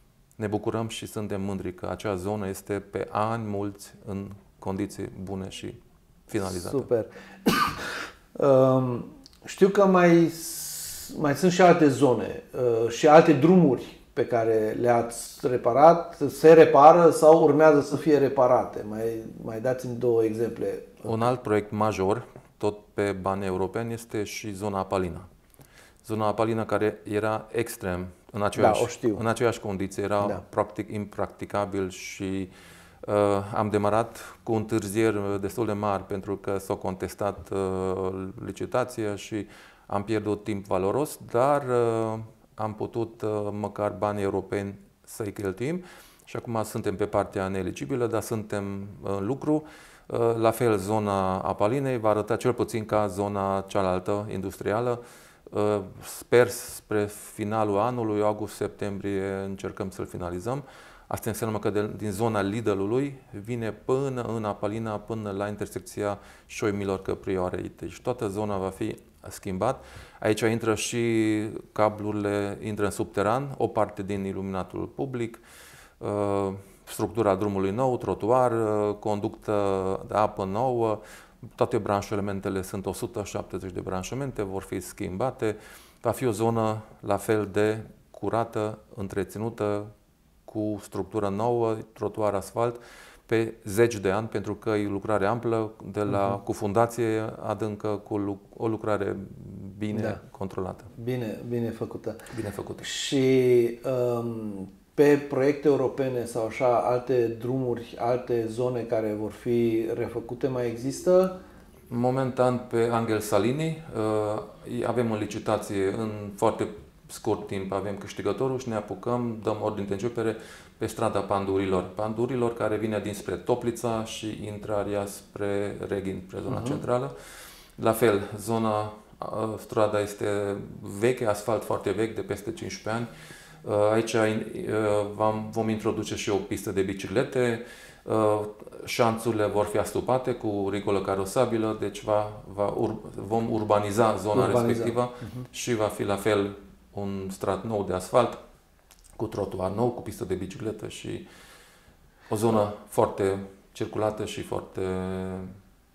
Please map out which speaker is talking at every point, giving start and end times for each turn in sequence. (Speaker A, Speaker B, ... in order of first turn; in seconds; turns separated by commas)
Speaker A: 0.4-5.8, Speaker A: 6.3-6.9, Speaker B: 6.4-7.8, Speaker B: 8.3-21.1, Speaker A: 21.0-25.3, Speaker A: 26.0-32.5, Speaker B: 28.5-29.2, Speaker A: 33.0-75.4, Speaker A: 76.0-81.0, Speaker A: 81.5-89.9, Speaker A: 90.5-100.9, Speaker B: 99.9-100.2, Speaker B: 100.9-102.2, Speaker A: 102.3-102.9, Speaker B: 102.8-111.4, Speaker A: 111.9-127.1, Speaker B: 126.5-126.8, Speaker A: 127.8-133.1, Speaker A: 133.6-148.4, Speaker B: 144.3-145.4, Speaker A: 149.2-151.2, Speaker A: 152.3-155.5